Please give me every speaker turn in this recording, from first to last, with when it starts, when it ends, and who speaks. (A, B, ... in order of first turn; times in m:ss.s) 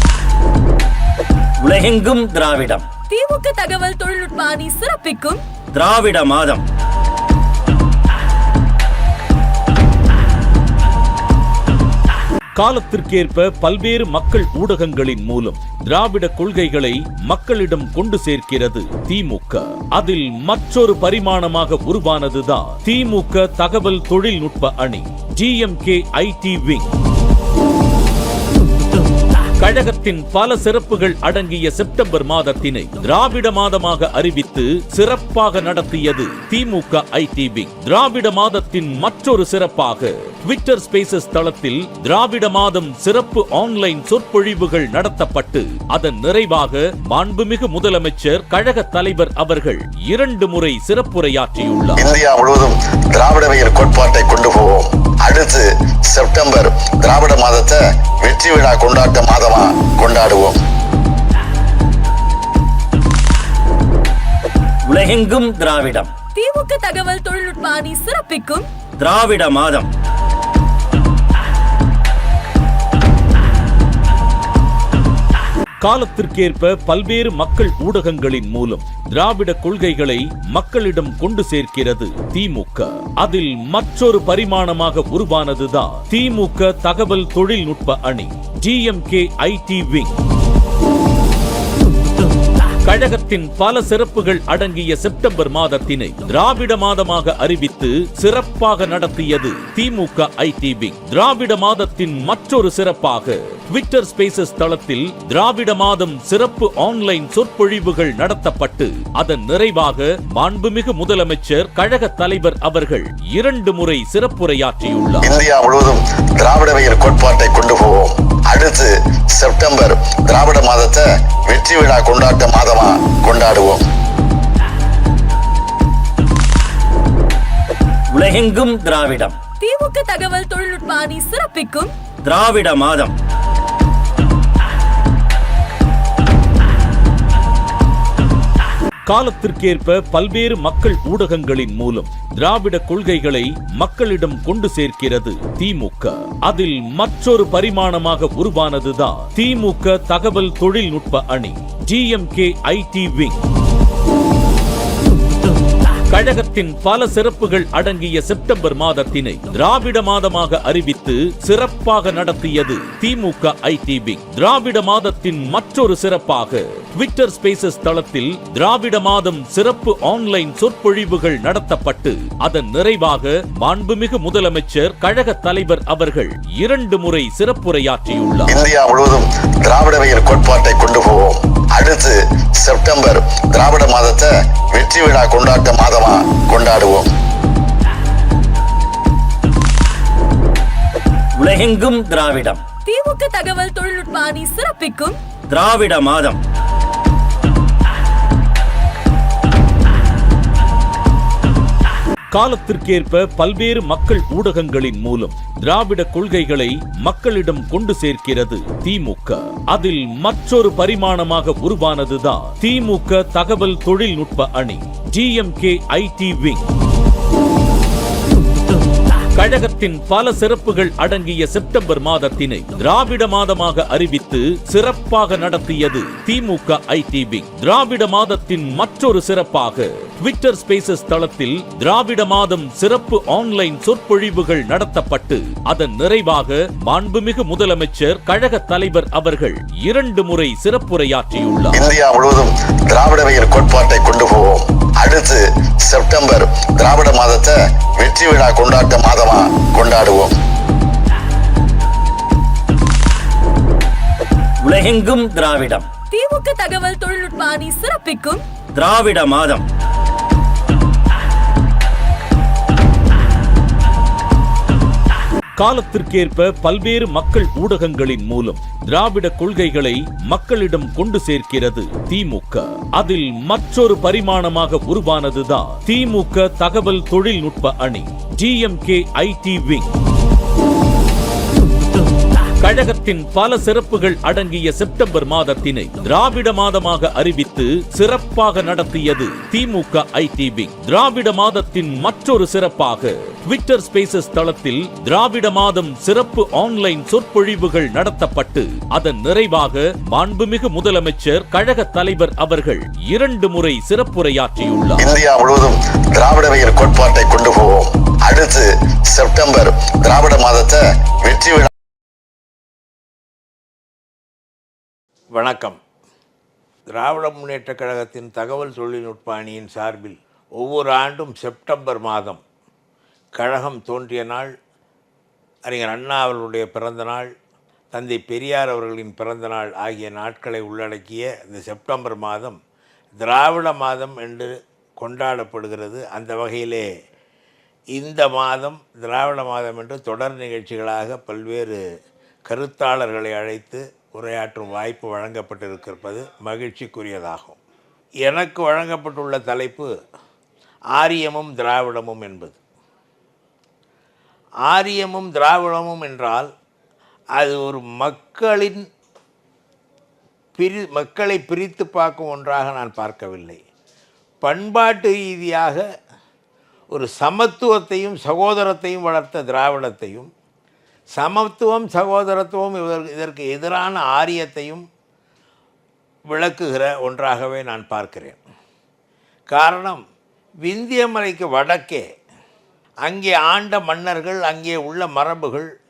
0:01.6-0:02.9 A
0:03.1-0:05.4 B
0:05.7-0:06.6 A
0:12.6-0:26.9 C
0:29.6-0:52.0 C
0:52.0-1:00.6 D
1:04.8-1:06.1 A
1:06.3-1:08.7 B
1:09.0-1:09.9 A
1:15.8-1:30.2 C
1:32.8-1:55.3 C
1:55.2-2:03.8 D
2:08.1-2:09.4 A
2:09.6-2:11.9 B
2:12.2-2:13.1 A
2:19.1-2:33.4 C
2:36.1-2:58.6 C
2:58.5-3:07.0 D
3:11.3-3:12.6 A
3:12.8-3:15.2 B
3:15.5-3:16.4 A
3:22.3-3:36.7 C
3:39.3-4:01.8 C
4:01.7-4:10.3 D
4:14.6-4:15.9 A
4:16.1-4:18.4 B
4:18.7-4:19.6 A
4:25.6-4:39.9 C
4:42.6-5:05.0 C
5:05.0-5:11.7 D
5:15.3-5:15.8 E
5:16.9-5:22.4 E
5:23.4-5:24.5 E
5:25.7-5:27.3 E
5:27.9-5:32.6 E
5:33.2-5:36.9 E
5:37.9-5:41.8 E
5:42.5-5:47.6 E
5:48.2-5:49.9 E
5:51.0-5:52.6 E
5:54.7-5:56.5 E
5:57.4-5:58.8 E
6:00.6-6:03.6 E
6:04.4-6:05.8 E
6:06.9-6:10.3 E
6:11.2-6:14.8 E
6:16.3-6:18.4 E
6:19.5-6:20.0 E
6:20.6-6:22.0 E
6:23.0-6:25.7 E